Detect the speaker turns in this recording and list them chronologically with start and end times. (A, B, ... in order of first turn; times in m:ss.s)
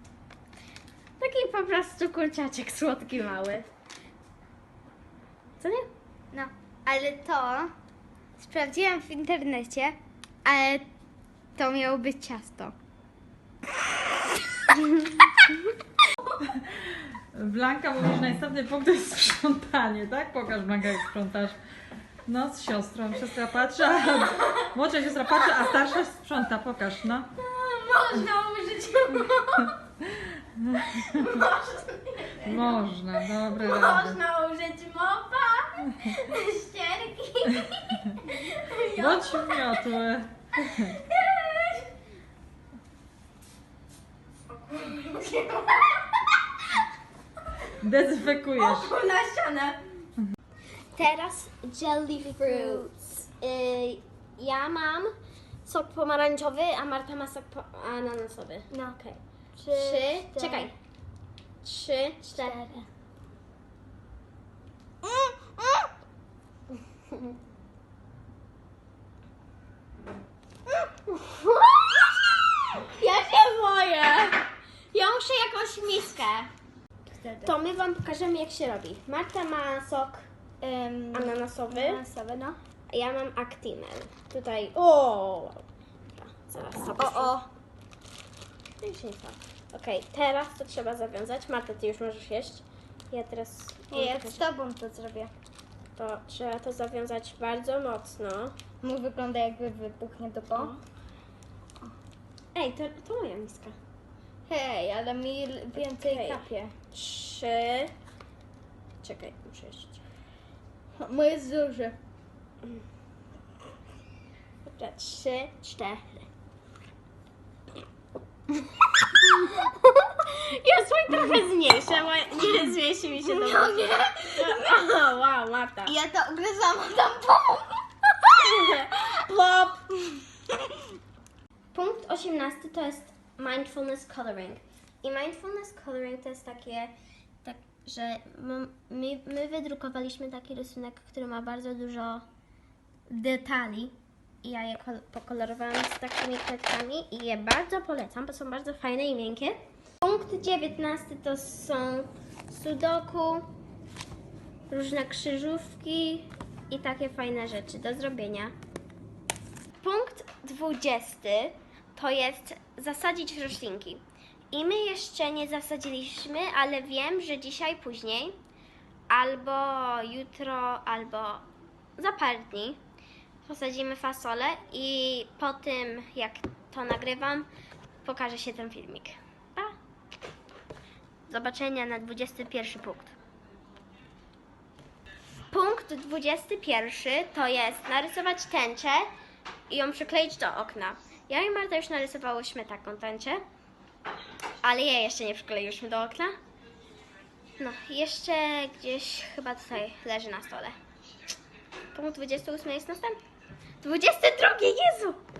0:01.2-0:03.7 A
0:05.6-0:05.9 A
0:06.3-0:07.7 B
0:08.4-0:10.9 B
0:11.6-0:12.7 B
0:16.4-0:21.6 C
0:22.2-0:27.3 C
0:27.5-0:29.7 A
0:29.0-0:29.3 B
0:30.0-0:31.4 C
0:30.9-0:32.8 A
0:32.4-0:34.2 C
0:33.5-0:39.5 A
0:38.9-0:41.0 C
0:41.2-0:41.8 A
0:44.7-0:45.6 B
0:47.8-0:48.9 C
0:48.6-0:49.8 B
0:50.9-0:55.1 A
0:52.2-0:52.9 B
0:55.6-0:59.2 A
0:58.7-0:59.0 B
0:59.6-1:00.7 B
0:59.7-1:00.7 A
1:01.6-1:02.6 A
1:02.3-1:02.8 B
1:05.0-1:05.9 A
1:10.7-1:16.5 A
1:17.2-1:17.5 B
1:17.4-1:20.3 A
1:20.6-1:22.6 B
1:21.1-1:22.0 A
1:22.9-1:25.6 A
1:26.2-1:27.3 A
1:27.0-1:27.4 B
1:28.8-1:34.4 A
1:33.9-1:35.3 B
1:36.0-1:38.6 A
1:38.8-1:40.7 B
1:40.5-1:40.8 A
1:42.5-1:43.8 A
1:44.5-1:46.7 B
1:45.7-1:47.9 A
1:49.0-1:50.0 A
1:51.0-1:52.0 B
1:54.6-1:56.3 A
1:59.1-2:06.0 A
2:03.3-2:04.6 B
2:05.9-2:08.3 B
2:08.4-2:09.9 A
2:11.7-2:16.9 A
2:17.4-2:22.2 A
2:23.1-2:33.5 A
2:34.7-2:38.5 A
2:39.8-2:48.4 A
2:49.1-2:51.4 A
2:52.0-2:52.8 A
2:53.4-2:57.5 A
2:58.0-2:59.7 A
3:01.3-3:03.1 A
3:05.5-3:09.1 A
3:09.7-3:13.4 A
3:14.6-3:16.3 A
3:17.6-3:20.7 A
3:21.9-3:23.2 A
3:23.8-3:25.2 A